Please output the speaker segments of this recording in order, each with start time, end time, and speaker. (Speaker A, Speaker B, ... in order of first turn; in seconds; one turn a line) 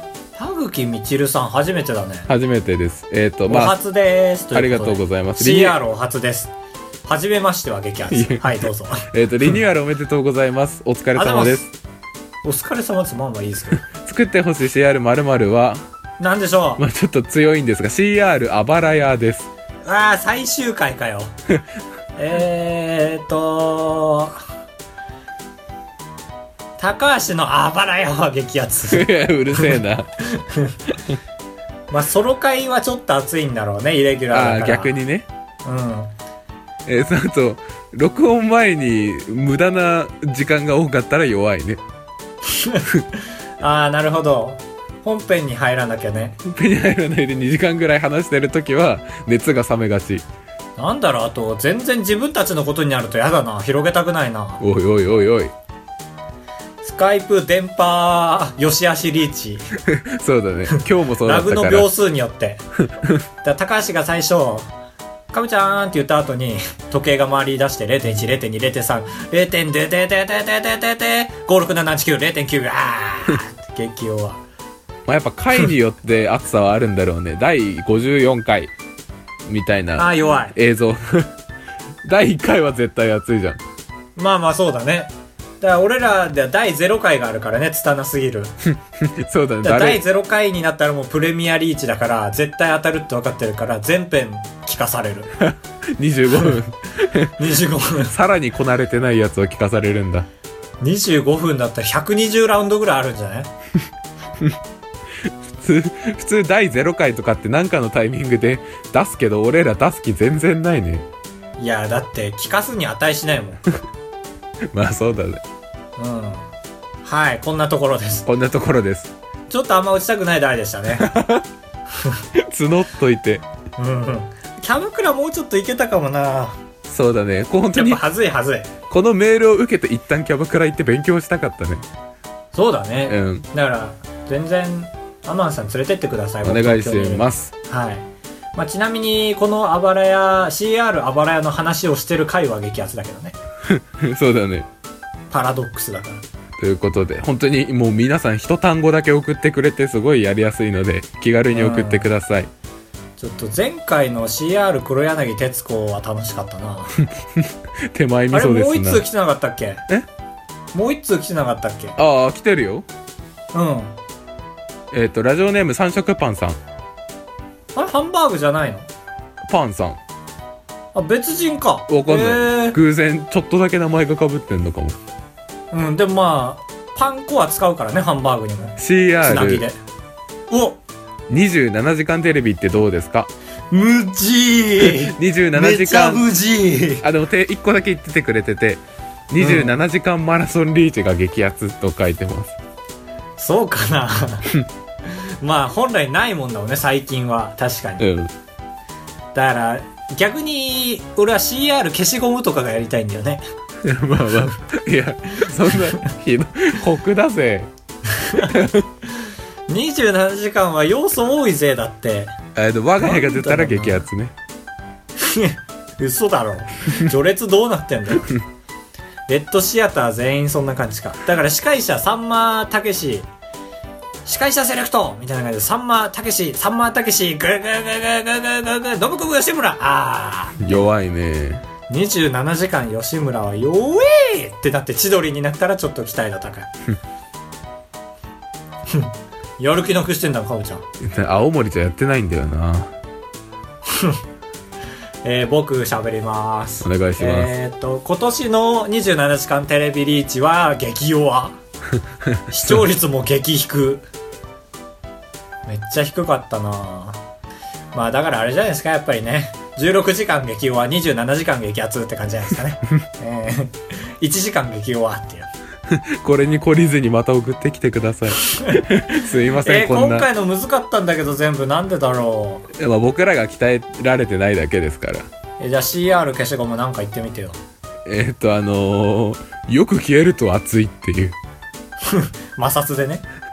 Speaker A: 0.4-2.3
Speaker B: 2.3-3.7
Speaker A: 3.5-6.5
Speaker B: 4.5-5.8
Speaker A: 7.1-9.1
Speaker B: 8.1-11.7
Speaker A: 11.2-11.6
Speaker A: 12.4-13.8
Speaker B: 13.7-15.8
Speaker A: 16.2-16.8
Speaker B: 16.8-19.5
Speaker A: 19.9-21.3
Speaker A: 22.1-24.4
Speaker A: 26.8-30.8
Speaker B: 28.9-30.1
Speaker A: 31.9-35.0
Speaker B: 34.3-35.3
Speaker A: 35.6-36.1
Speaker B: 36.9-41.8
Speaker A: 42.5-42.9
Speaker A: 43.6-46.4
Speaker B: 46.4-50.2
Speaker A: 50.8-54.6
Speaker B: 54.6-55.5
Speaker A: 56.8-59.6
Speaker B: 59.8-61.9
Speaker A: 60.7-62.6
Speaker A: 63.4-64.7
Speaker A: 65.3-74.4
Speaker B: 75.1-78.7
Speaker B: 79.5-81.3
Speaker A: 80.0-80.5
Speaker B: 82.0-83.6
Speaker A: 84.2-88.5
Speaker B: 89.0-90.0
Speaker A: 89.6-95.3
Speaker B: 95.4-97.3
Speaker A: 97.4-98.1
Speaker B: 98.1-100.3
Speaker A: 100.8-103.5
Speaker B: 105.3-111.0
Speaker A: 111.6-113.6
Speaker B: 114.7-115.4
Speaker A: 116.0-116.5
Speaker A: 117.0-118.3
Speaker B: 118.2-119.1
Speaker A: 119.5-121.1
Speaker B: 121.0-121.5
Speaker B: 122.3-123.4
Speaker A: 123.8-126.6
Speaker B: 126.9-128.0
Speaker A: 127.7-128.7
Speaker B: 128.9-131.8
Speaker A: 132.5-138.0
Speaker B: 133.1-133.4
Speaker B: 136.4-137.5
Speaker A: 138.5-143.3
Speaker B: 143.7-144.7
Speaker A: 145.3-146.2
Speaker B: 146.6-152.5
Speaker A: 151.5-152.1
Speaker A: 153.2-157.0
Speaker B: 157.3-159.0
Speaker A: 158.3-159.8
Speaker A: 160.7-161.9
Speaker B: 162.0-162.8
Speaker A: 163.5-163.9
Speaker B: 164.9-166.6
Speaker A: 167.7-168.9
Speaker B: 169.4-170.0
Speaker A: 170.9-172.8
Speaker B: 171.9-175.0
Speaker A: 175.7-179.8
Speaker B: 178.8-179.6
Speaker A: 180.5-180.8
Speaker B: 181.3-183.3
Speaker A: 183.7-187.0
Speaker B: 184.8-186.3
Speaker B: 187.0-192.5
Speaker A: 189.4-189.8
Speaker A: 193.4-194.5
Speaker A: 195.1-198.1
Speaker B: 198.0-198.3
Speaker A: 199.3-203.4
Speaker B: 203.8-207.7
Speaker A: 208.2-208.5
Speaker B: 208.3-208.9
Speaker A: 209.7-212.3
Speaker B: 212.5-214.3
Speaker A: 213.0-214.0
Speaker A: 215.2-218.3
Speaker A: 219.3-223.3
Speaker A: 224.2-230.8
Speaker B: 230.6-231.6
Speaker A: 231.9-236.7
Speaker A: 238.9-240.8
Speaker B: 241.0-242.9
Speaker A: 243.9-244.2
Speaker A: 245.2-251.6
Speaker B: 246.8-247.5
Speaker B: 252.2-252.7
Speaker A: 252.5-254.0
Speaker A: 255.7-257.2
Speaker A: 257.9-265.5
Speaker B: 265.9-270.3
Speaker A: 268.4-268.8
Speaker A: 269.6-272.7
Speaker B: 272.7-275.3
Speaker A: 275.6-277.6
Speaker B: 278.1-281.4
Speaker A: 282.0-283.2